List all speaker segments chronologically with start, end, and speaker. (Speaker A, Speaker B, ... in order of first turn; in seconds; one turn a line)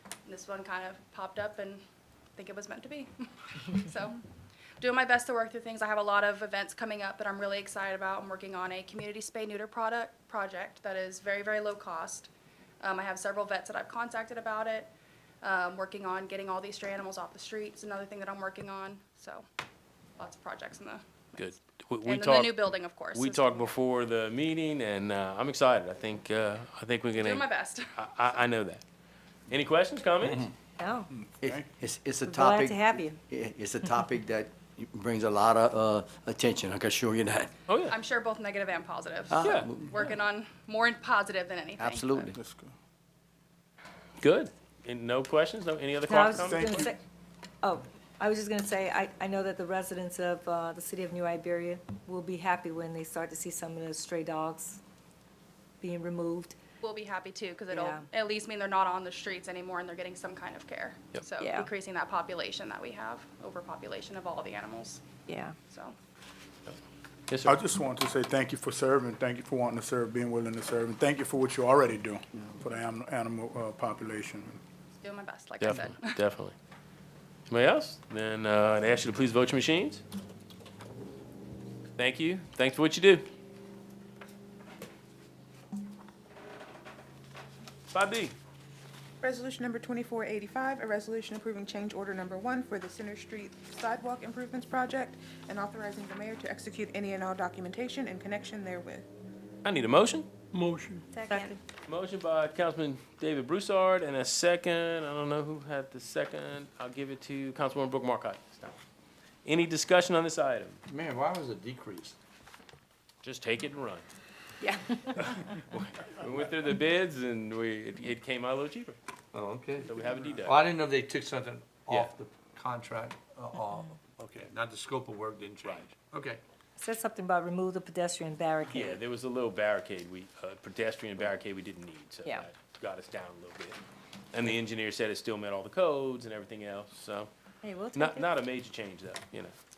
Speaker A: 0.3-1.8
Speaker A: 2.4-4.2
Speaker A: 4.8-12.3
Speaker A: 12.8-19.4
Speaker A: 20.2-21.5
Speaker B: 21.4-22.6
Speaker A: 22.0-23.7
Speaker B: 23.1-28.8
Speaker A: 27.1-27.9
Speaker B: 29.5-30.5
Speaker C: 30.8-31.1
Speaker D: 31.1-31.7
Speaker E: 31.4-37.5
Speaker C: 32.3-33.2
Speaker B: 37.7-38.0
Speaker A: 37.9-42.3
Speaker E: 39.3-39.9
Speaker B: 39.4-40.1
Speaker E: 41.8-42.4
Speaker D: 42.4-42.7
Speaker B: 44.2-46.9
Speaker C: 46.1-47.0
Speaker D: 46.3-46.9
Speaker C: 47.6-54.8
Speaker C: 55.8-56.6
Speaker A: 56.8-65.0
Speaker C: 57.8-58.1
Speaker C: 61.4-61.7
Speaker C: 65.3-65.6
Speaker A: 65.7-66.0
Speaker B: 67.3-67.5
Speaker D: 67.5-74.6
Speaker A: 75.0-76.2
Speaker B: 75.6-76.5
Speaker B: 77.5-80.0
Speaker B: 82.0-83.3
Speaker B: 87.9-88.3
Speaker F: 89.2-99.1
Speaker B: 99.7-100.3
Speaker G: 100.5-101.0
Speaker C: 101.1-101.6
Speaker B: 101.9-108.8
Speaker B: 109.5-110.8
Speaker G: 110.9-112.2
Speaker B: 113.2-114.1
Speaker C: 114.6-115.4
Speaker B: 115.2-119.0
Speaker G: 119.3-126.4
Speaker B: 119.9-120.6
Speaker B: 121.9-122.1
Speaker B: 125.6-125.9
Speaker C: 126.8-129.0
Speaker B: 128.7-133.8
Speaker B: 134.3-137.3
Speaker C: 137.6-138.3
Speaker B: 137.9-139.5